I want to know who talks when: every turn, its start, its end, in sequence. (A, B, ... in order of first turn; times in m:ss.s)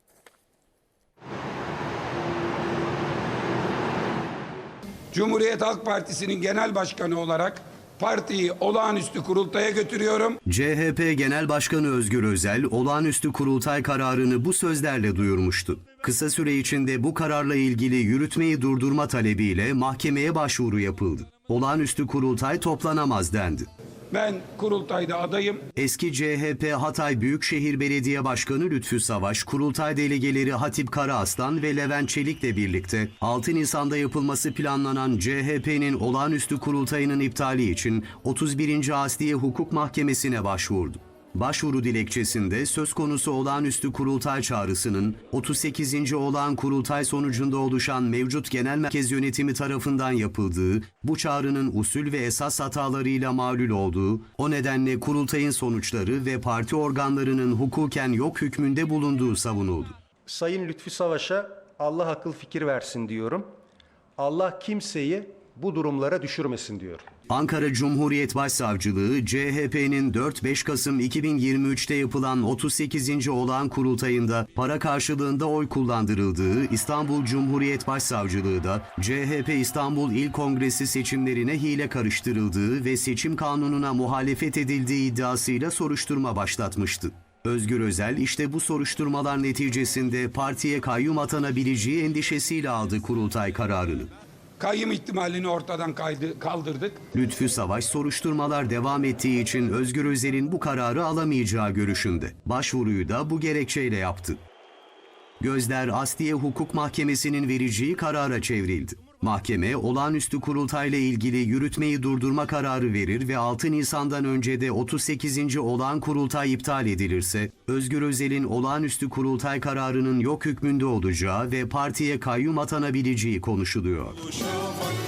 0:05.1-0:10.4 A
0:10.4-0:23.7 B
0:24.1-0:25.6 A
0:25.8-1:00.0 B
1:00.3-1:03.5 C
1:04.2-1:07.1 C
1:07.3-1:34.1 B
1:34.6-1:37.0 A
1:37.1-1:44.4 B
1:45.4-2:04.4 B